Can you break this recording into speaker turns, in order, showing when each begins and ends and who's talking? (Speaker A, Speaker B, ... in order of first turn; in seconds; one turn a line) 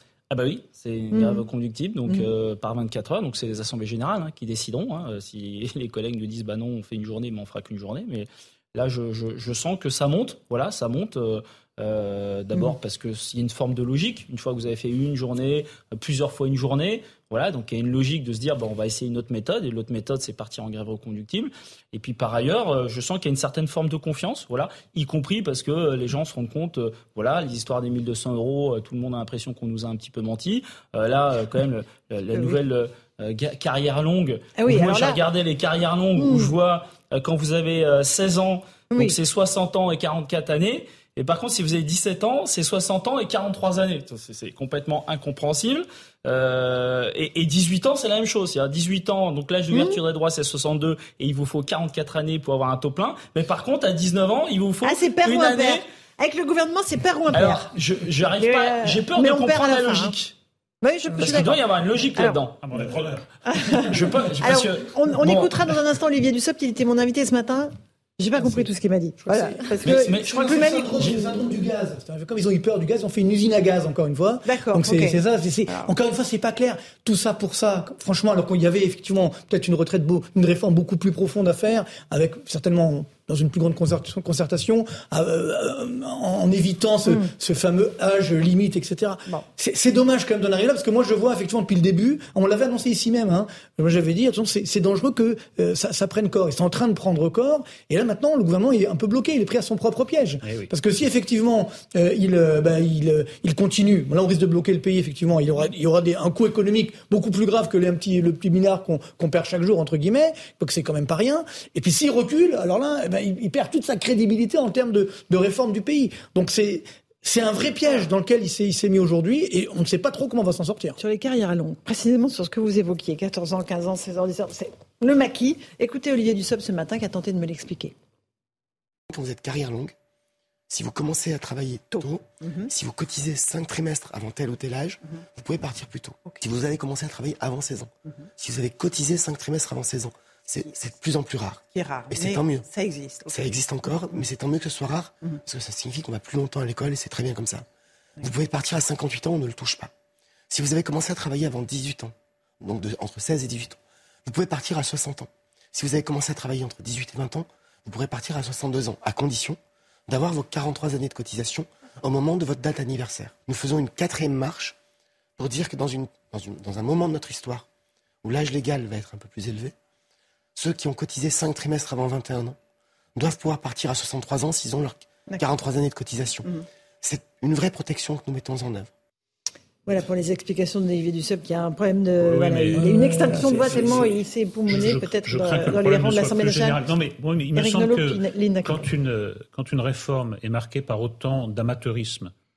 Speaker A: 0.3-55.9
Speaker B: 1.1-1.5
Speaker B: 32.3-32.6
Speaker B: 34.6-35.2
Speaker B: 36.2-36.5
Speaker B: 38.9-39.2
Speaker B: 49.7-50.0
Speaker B: 54.8-57.7
Speaker A: 57.3-60.3
Speaker B: 58.4-60.2
Speaker B: 60.8-62.5
Speaker A: 61.2-62.6
Speaker C: 62.6-63.2
Speaker B: 63.5-71.6
Speaker A: 63.9-65.7
Speaker D: 69.3-121.0
Speaker A: 69.8-70.5
Speaker B: 74.5-75.9
Speaker B: 87.1-87.3
Speaker B: 121.0-128.0
Speaker E: 129.1-129.9
Speaker E: 130.7-142.7
Speaker B: 132.0-132.7
Speaker B: 141.7-143.3
Speaker E: 143.3-147.7
Speaker E: 148.2-149.9
Speaker E: 150.5-164.8
Speaker E: 165.4-167.7
Speaker E: 168.2-169.7
Speaker E: 170.6-172.6
Speaker E: 173.2-176.5
Speaker E: 177.0-178.9
Speaker B: 179.9-186.8
Speaker C: 182.2-184.2
Speaker D: 182.8-183.7
Speaker C: 184.7-192.3
Speaker B: 187.6-188.9